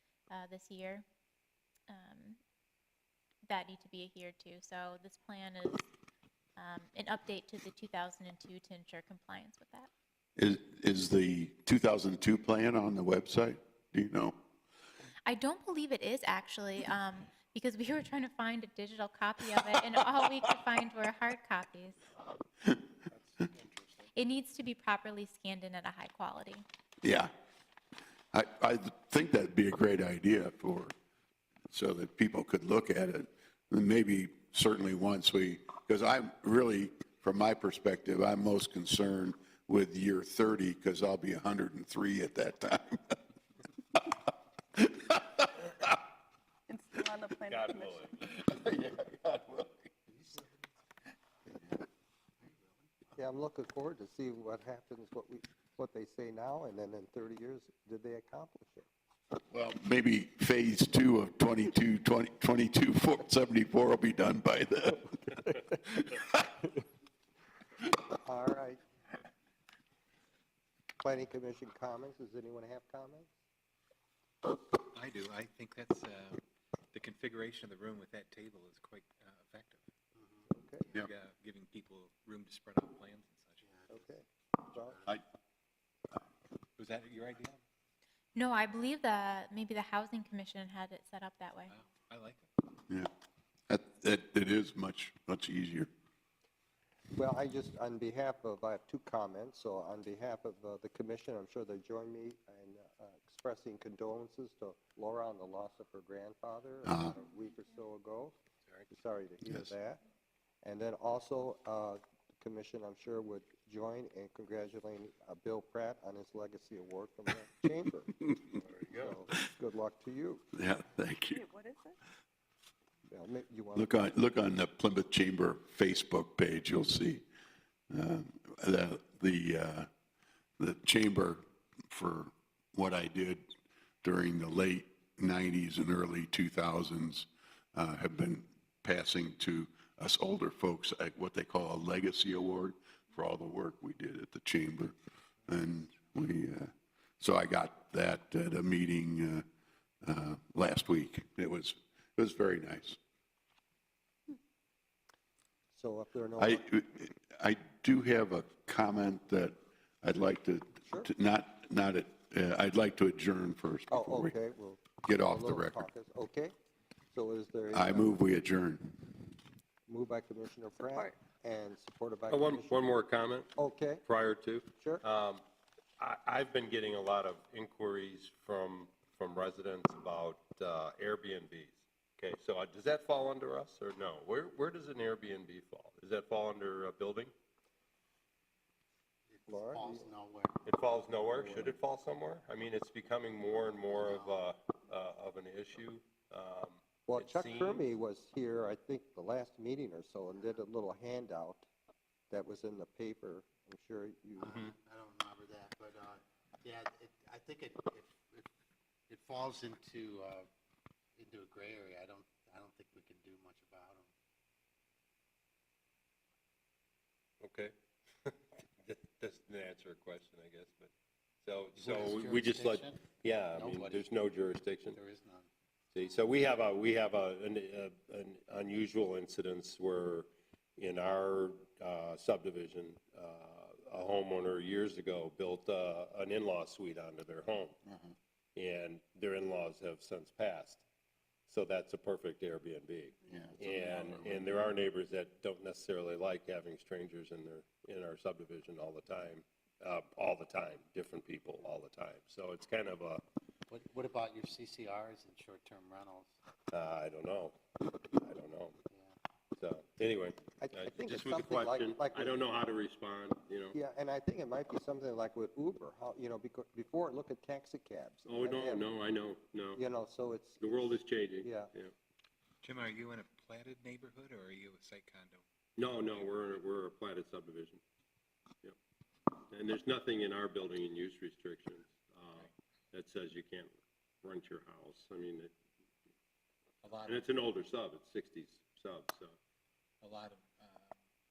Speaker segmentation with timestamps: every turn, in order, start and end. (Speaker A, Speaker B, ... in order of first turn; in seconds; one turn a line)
Speaker A: 0.3-1.1
Speaker A: 1.9-2.4
Speaker A: 3.5-5.9
Speaker A: 6.6-9.9
Speaker B: 10.4-14.4
Speaker A: 15.3-22.0
Speaker C: 23.2-24.1
Speaker A: 24.1-26.7
Speaker B: 27.0-27.3
Speaker B: 28.3-30.9
Speaker B: 31.7-43.2
Speaker B: 44.8-45.8
Speaker D: 46.7-48.0
Speaker E: 47.5-48.3
Speaker B: 48.4-49.8
Speaker F: 50.1-50.5
Speaker F: 52.4-52.8
Speaker G: 53.1-58.9
Speaker B: 59.5-66.3
Speaker G: 68.2-68.8
Speaker G: 71.0-73.3
Speaker C: 74.9-76.4
Speaker C: 76.9-79.8
Speaker F: 80.2-80.5
Speaker G: 80.5-80.9
Speaker C: 80.9-83.7
Speaker F: 83.6-84.2
Speaker G: 83.9-85.0
Speaker C: 86.8-87.6
Speaker A: 88.3-91.7
Speaker C: 91.7-92.5
Speaker B: 93.7-95.9
Speaker G: 97.2-108.4
Speaker B: 106.8-107.2
Speaker G: 108.9-110.0
Speaker B: 109.5-109.7
Speaker G: 110.6-118.2
Speaker E: 118.5-119.2
Speaker G: 118.9-120.4
Speaker B: 120.5-121.5
Speaker D: 121.3-122.0
Speaker G: 123.1-123.9
Speaker B: 123.8-127.2
Speaker B: 127.9-129.9
Speaker B: 130.6-133.5
Speaker B: 134.0-144.9
Speaker B: 145.5-149.4
Speaker B: 150.0-153.0
Speaker G: 155.7-156.6
Speaker B: 156.4-164.4
Speaker G: 163.9-166.5
Speaker B: 165.0-165.8
Speaker G: 167.1-168.2
Speaker B: 167.7-169.2
Speaker G: 169.9-173.0
Speaker D: 170.9-171.2
Speaker E: 172.3-173.5
Speaker G: 173.6-174.0
Speaker E: 174.0-175.4
Speaker G: 174.8-175.0
Speaker E: 176.0-187.3
Speaker F: 189.3-190.7
Speaker G: 189.5-190.1
Speaker E: 190.7-197.9
Speaker G: 191.3-191.7
Speaker F: 193.9-194.4
Speaker G: 197.1-201.7
Speaker G: 202.3-204.6
Speaker F: 204.4-208.5
Speaker F: 209.1-210.5
Speaker F: 211.2-214.1
Speaker E: 217.4-217.7
Speaker E: 218.2-220.9
Speaker E: 221.4-225.0
Speaker F: 221.8-224.1
Speaker F: 224.9-225.5
Speaker E: 225.9-237.8
Speaker B: 237.9-238.1
Speaker E: 238.6-240.8
Speaker E: 241.5-253.2
Speaker B: 243.3-244.5
Speaker F: 253.7-256.3
Speaker E: 256.7-258.8
Speaker F: 258.9-259.1
Speaker E: 259.5-263.8
Speaker G: 260.6-262.4
Speaker G: 263.7-268.9
Speaker E: 268.2-269.8
Speaker G: 269.8-271.7
Speaker E: 270.6-271.9
Speaker C: 272.6-275.4
Speaker E: 275.8-277.8
Speaker C: 276.0-276.3
Speaker E: 279.5-285.5
Speaker C: 286.8-287.3
Speaker E: 287.1-289.4
Speaker C: 290.0-291.0